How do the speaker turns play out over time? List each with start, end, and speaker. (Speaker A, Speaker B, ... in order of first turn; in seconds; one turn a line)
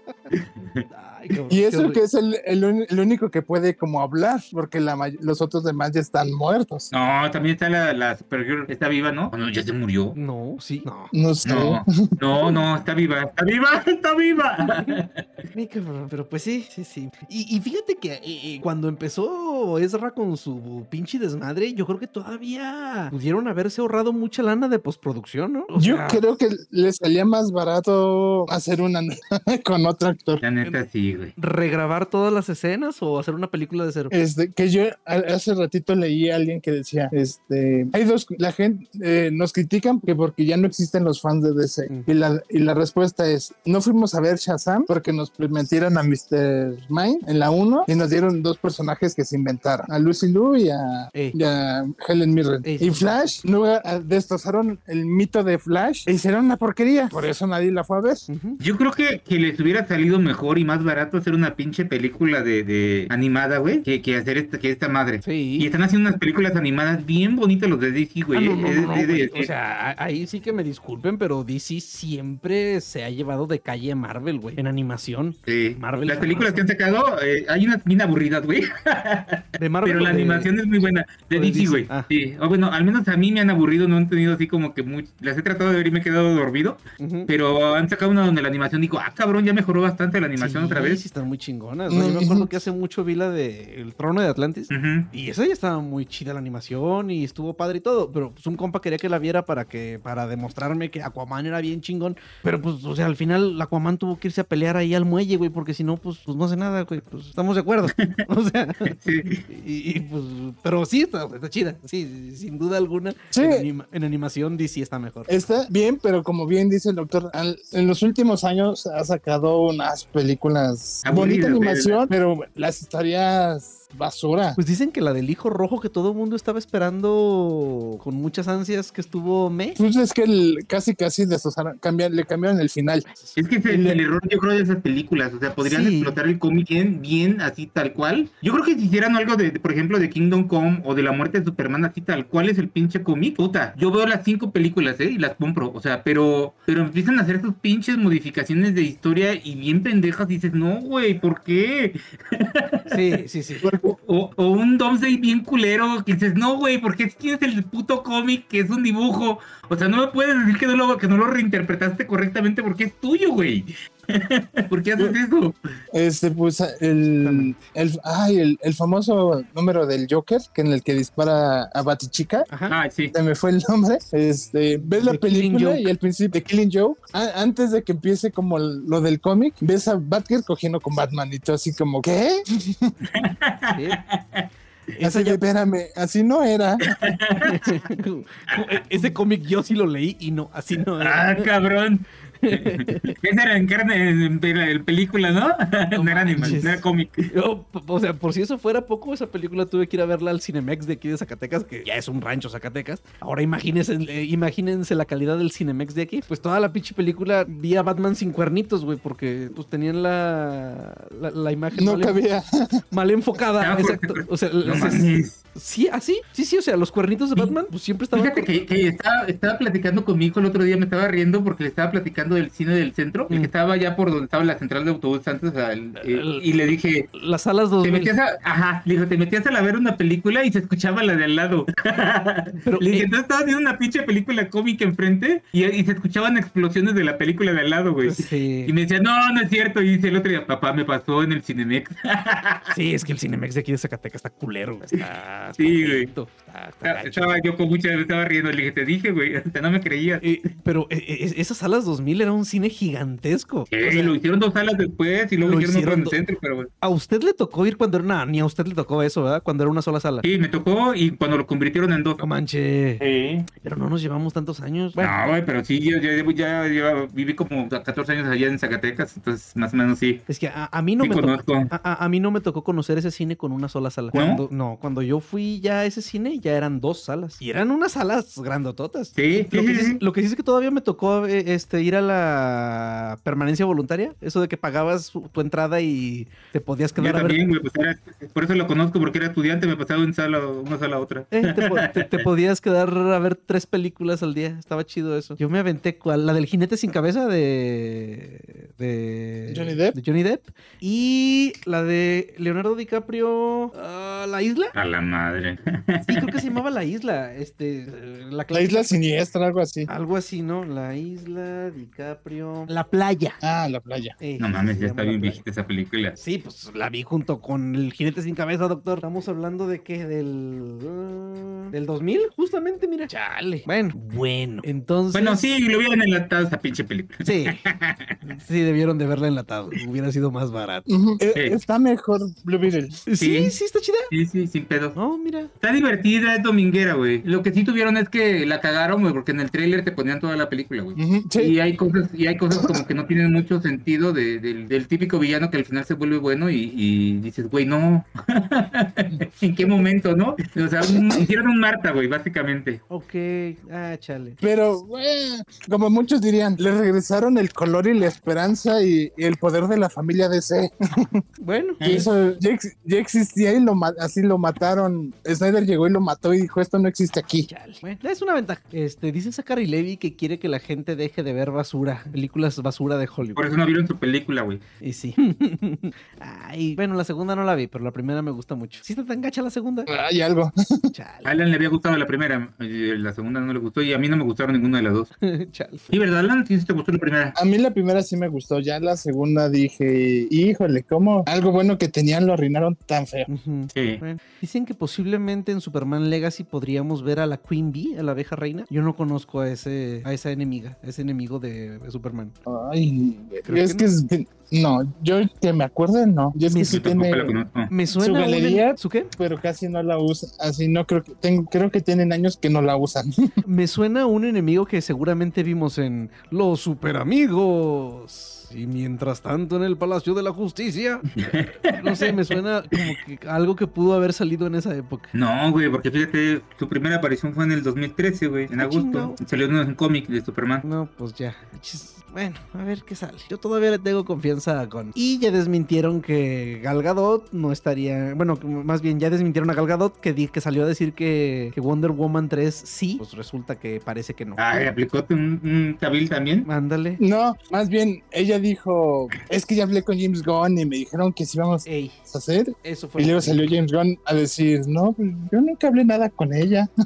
Speaker A: 0.3-0.8
Speaker B: 0.9-2.0
Speaker C: 1.5-6.9
Speaker A: 6.9-10.2
Speaker B: 10.2-11.1
Speaker C: 11.1-11.9
Speaker A: 11.4-15.2
Speaker B: 14.7-15.0
Speaker B: 15.5-26.2
Speaker C: 25.8-30.4
Speaker A: 30.4-31.3
Speaker B: 31.4-34.1
Speaker C: 34.1-58.3
Speaker B: 52.6-53.3
Speaker B: 58.3-58.6
Speaker A: 58.6-69.5
Speaker B: 65.2-65.7
Speaker B: 68.3-76.7
Speaker A: 75.5-91.0
Speaker B: 79.6-80.5
Speaker B: 81.3-82.1
Speaker B: 87.0-87.3
Speaker B: 90.4-109.0
Speaker C: 91.9-92.5
Speaker A: 94.7-95.1
Speaker A: 108.9-109.4
Speaker B: 109.5-115.3
Speaker C: 113.3-113.7
Speaker C: 115.3-124.6
Speaker A: 121.0-122.1
Speaker B: 124.6-129.8
Speaker C: 129.8-133.1
Speaker B: 133.1-133.4
Speaker A: 133.4-153.2
Speaker C: 133.7-134.0
Speaker B: 135.6-136.2
Speaker B: 152.9-153.7
Speaker C: 153.6-154.0
Speaker A: 154.0-165.6
Speaker C: 165.9-172.5
Speaker B: 167.2-167.6
Speaker B: 172.5-172.8
Speaker A: 172.7-173.1
Speaker C: 173.1-183.0
Speaker B: 174.9-175.9
Speaker A: 183.1-184.5
Speaker B: 183.7-184.0
Speaker B: 184.9-185.4
Speaker C: 185.0-187.1
Speaker A: 186.8-187.8
Speaker B: 187.4-191.5
Speaker A: 191.0-197.3
Speaker B: 192.4-193.2
Speaker B: 195.9-212.2
Speaker C: 211.8-212.8
Speaker B: 212.9-218.5
Speaker A: 213.6-215.4
Speaker A: 218.1-227.1
Speaker B: 226.0-226.4
Speaker B: 227.1-228.1
Speaker A: 227.8-242.7
Speaker B: 232.6-233.1
Speaker B: 238.1-238.7
Speaker B: 242.7-247.4
Speaker A: 245.6-246.1
Speaker A: 246.8-250.2
Speaker B: 250.2-254.2
Speaker A: 253.7-256.7
Speaker B: 255.4-256.2
Speaker B: 256.8-260.3
Speaker A: 260.2-262.2
Speaker B: 262.2-265.1
Speaker A: 263.0-263.5
Speaker A: 265.0-270.2
Speaker B: 270.3-287.4
Speaker A: 271.0-271.7
Speaker A: 274.1-274.4
Speaker A: 279.2-280.0
Speaker A: 287.0-292.2
Speaker B: 291.3-304.7
Speaker C: 299.5-300.0
Speaker A: 304.8-306.5
Speaker B: 306.1-308.9
Speaker C: 308.5-309.9
Speaker B: 309.9-313.4
Speaker C: 313.4-314.2
Speaker B: 314.2-315.4
Speaker A: 314.4-316.2
Speaker B: 316.2-325.6
Speaker A: 325.1-328.2
Speaker B: 327.2-327.6
Speaker B: 328.2-330.9
Speaker C: 330.9-333.0
Speaker B: 333.1-334.1
Speaker A: 333.2-333.6
Speaker A: 334.1-335.0
Speaker B: 334.9-335.5
Speaker A: 335.6-352.8
Speaker C: 341.0-341.5
Speaker C: 342.5-342.8
Speaker B: 352.9-354.4
Speaker C: 354.4-361.2
Speaker B: 361.4-362.1
Speaker A: 361.8-362.1
Speaker C: 361.8-367.5
Speaker B: 367.5-373.5
Speaker A: 373.4-374.6
Speaker B: 374.8-379.9
Speaker C: 379.9-380.9
Speaker B: 380.9-381.3
Speaker A: 381.2-385.1
Speaker B: 385.2-385.9
Speaker A: 385.9-387.4
Speaker C: 387.4-393.3
Speaker B: 393.3-402.4
Speaker A: 393.7-394.0
Speaker C: 402.4-407.4
Speaker B: 403.4-403.9
Speaker B: 406.5-406.8
Speaker A: 406.6-407.7
Speaker B: 407.7-409.1
Speaker C: 408.0-413.4
Speaker B: 413.4-425.1
Speaker A: 421.2-422.1
Speaker A: 425.1-430.6
Speaker B: 428.6-429.2
Speaker B: 430.6-444.4
Speaker A: 444.4-446.5
Speaker B: 446.4-447.0
Speaker C: 447.0-456.7
Speaker B: 451.7-452.0
Speaker B: 452.6-453.5